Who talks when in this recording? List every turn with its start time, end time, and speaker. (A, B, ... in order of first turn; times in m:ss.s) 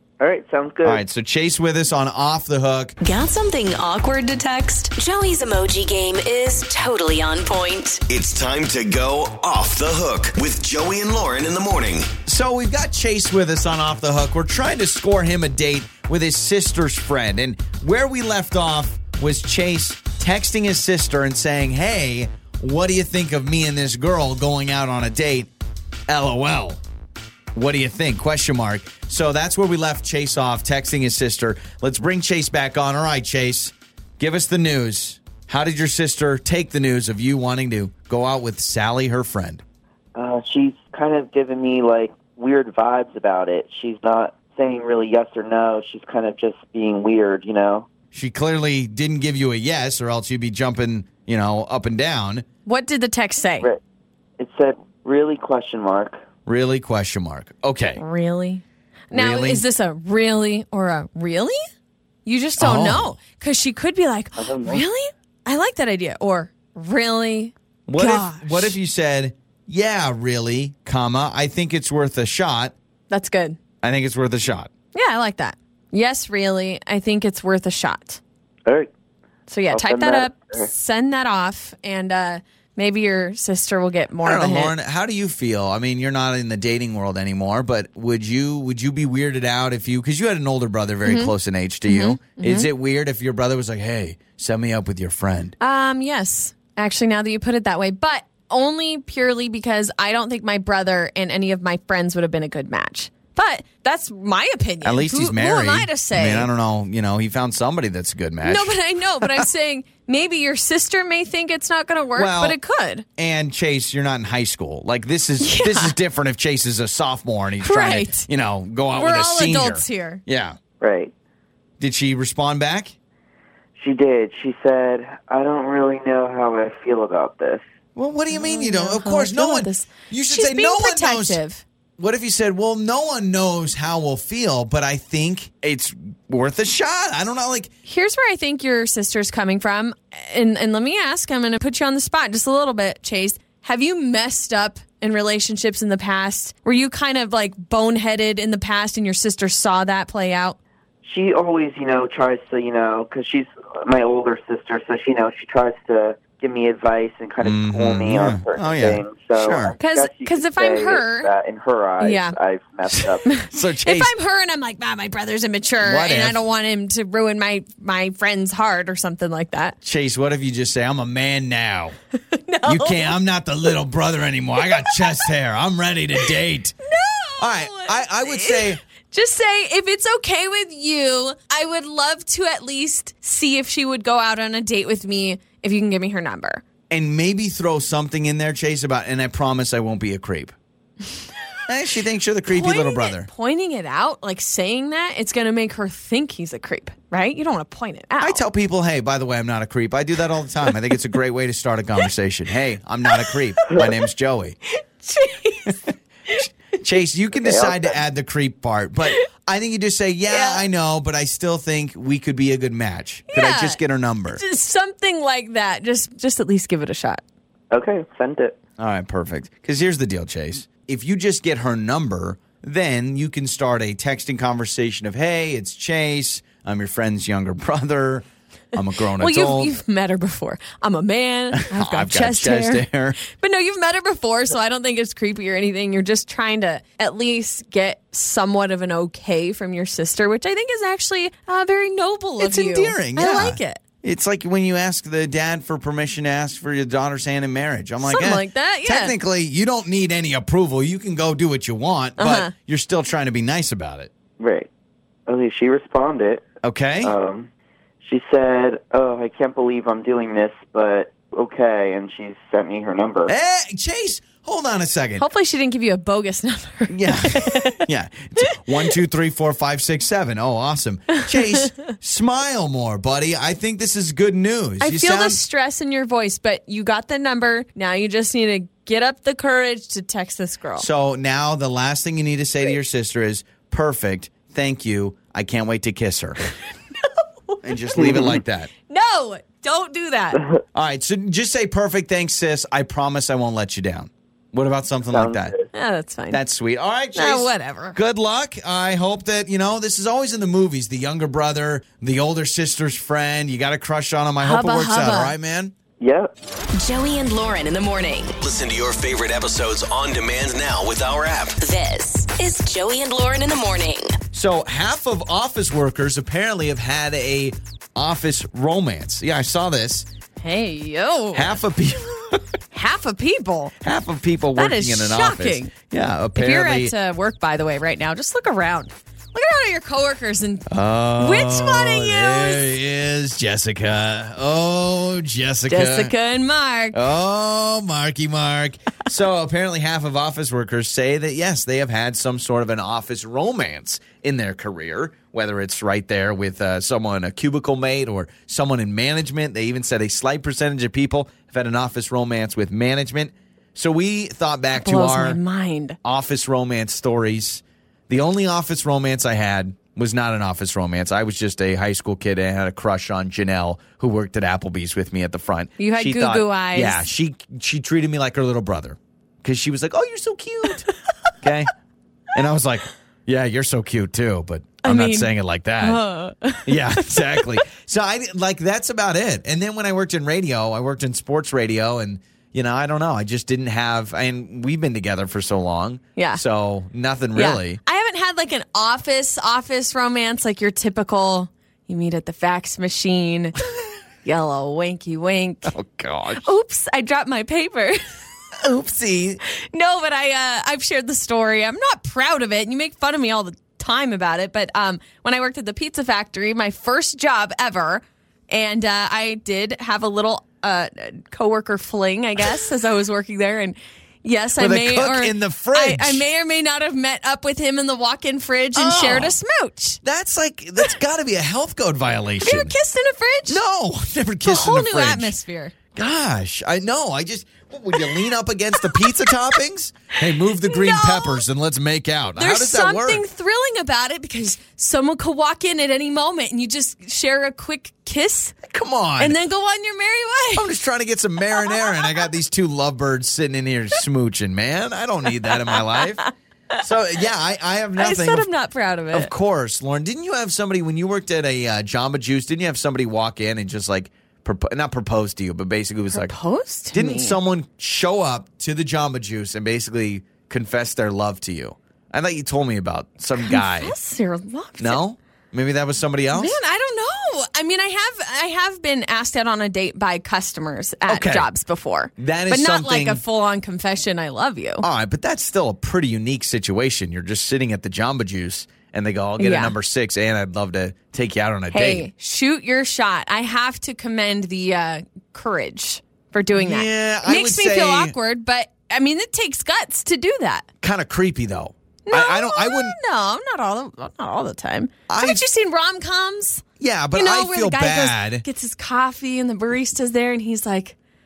0:00.2-0:01.0 A
0:00.8-0:02.9 B
0:03.0-0:08.0 C
0:08.1-0:12.1 D
0:12.3-0:25.5 B
0:26.1-0:26.8 B
0:27.5-0:39.6 B
0:40.1-0:47.9 A
0:48.1-0:52.4 B
0:52.6-0:53.7 E
0:54.4-0:56.2 A
0:56.4-0:58.0 B
0:58.0-1:01.6 E
0:59.1-0:59.6 B
1:02.2-1:08.8 E
1:02.6-1:03.1 B
1:04.4-1:04.8 A
1:07.9-1:12.7 B
1:13.1-1:13.6 E
1:13.8-1:14.7 B
1:14.9-1:18.2 E
1:18.6-1:18.9 A
1:19.5-1:24.7 E
1:19.7-1:20.7 A
1:24.2-1:35.6 B
1:31.0-1:31.3 E
1:31.8-1:32.7 E
1:35.6-1:46.5 E
1:44.8-1:49.4 B
1:48.4-1:53.0 E
1:52.2-1:52.6 B
1:53.2-2:00.6 B
1:55.4-1:55.9 E
1:57.6-1:58.3 E
1:58.9-2:00.2 E
2:00.8-2:01.1 A
2:01.8-2:02.9 B
2:03.8-2:07.6 A
2:08.0-2:11.4 B
2:08.3-2:11.6 E
2:12.0-2:17.7 B
2:17.8-2:30.6 E
2:31.0-2:43.3 A
2:37.4-2:39.8 B
2:39.8-2:41.3 E
2:42.0-2:42.4 E
2:42.9-2:44.1 B
2:43.2-2:49.8 E
2:45.8-2:46.4 B
2:49.8-2:52.0 B
2:52.3-2:53.2 E
2:52.6-2:56.8 B
2:54.6-2:55.2 E
2:56.8-3:06.6 E
2:57.4-2:58.8 B
3:06.9-3:10.5 B
3:11.7-3:13.3 B
3:12.5-3:18.4 E
3:18.2-3:24.6 B
3:23.1-3:23.8 E
3:24.7-3:26.4 E
3:26.8-3:34.4 B
3:27.4-3:28.0 A
3:30.3-3:30.6 E
3:33.3-3:37.2 E
3:37.7-3:38.6 A
3:38.8-3:49.7 B
3:49.2-4:03.8 E
3:51.6-3:53.2 B
4:02.4-4:14.1 B
4:08.0-4:09.1 E
4:12.2-4:12.5 E
4:14.4-4:14.7 A
4:15.3-4:16.4 A
4:16.6-4:17.1 B
4:17.0-4:17.5 A
4:18.0-4:23.3 A
4:23.3-4:25.2 B
4:25.2-4:27.8 E
4:26.9-4:35.4 B
4:34.8-4:40.9 E
4:40.8-4:46.4 B
4:47.5-4:48.0 E
4:47.6-4:48.7 B
4:48.0-4:48.4 A
4:48.9-4:50.4 E
4:50.7-4:55.5 B
4:55.1-4:55.7 A
4:55.7-4:56.4 E
4:56.3-5:05.7 B
4:57.1-4:58.0 E
5:04.4-5:05.3 E
5:06.0-5:06.3 A
5:06.8-5:08.4 C
5:08.4-5:11.6 D
5:11.6-5:14.2 C
5:14.3-5:20.1 B
5:20.4-5:21.6 E
5:21.3-5:22.4 B
5:22.7-5:23.7 E
5:23.8-5:26.9 B
5:24.6-5:25.7 E
5:26.4-5:32.7 E
5:30.7-5:36.1 B
5:35.7-5:37.0 E
5:36.9-5:55.4 B
5:54.7-5:56.0 E
5:56.0-6:10.9 B
6:05.8-6:07.1 E
6:11.4-6:11.7 B
6:12.3-6:16.0 B
6:14.8-6:17.6 E
6:16.6-6:27.8 B
6:26.2-6:26.4 E
6:27.3-6:33.6 E
6:34.2-6:35.7 E
6:35.7-6:36.5 B
6:36.4-6:38.0 E
6:38.6-6:39.4 B
6:39.7-7:00.0 E
6:54.6-6:56.2 B
6:58.7-6:59.3 B
7:00.0-7:02.7 B
7:02.4-7:03.6 E
7:03.5-7:05.3 B
7:04.4-7:05.7 E
7:05.9-7:13.2 B
7:08.8-7:09.3 E
7:10.6-7:11.4 E
7:12.4-7:18.6 E
7:18.7-7:19.4 B
7:19.2-7:20.7 E
7:20.6-7:26.3 B
7:21.6-7:22.1 E
7:26.8-7:28.4 B
7:28.0-7:29.3 E
7:29.1-7:36.3 B
7:36.1-7:37.4 E
7:36.9-7:43.9 B
7:43.4-7:45.0 E
7:44.8-7:46.5 B
7:46.3-7:54.8 E
7:51.1-7:51.5 B
7:52.2-7:53.2 B
7:54.8-8:02.1 B
7:59.4-7:59.7 E
8:01.7-8:10.6 E
8:06.5-8:08.2 B
8:10.8-8:13.0 B
8:12.1-8:21.0 E
8:15.1-8:15.4 B
8:16.8-8:18.4 B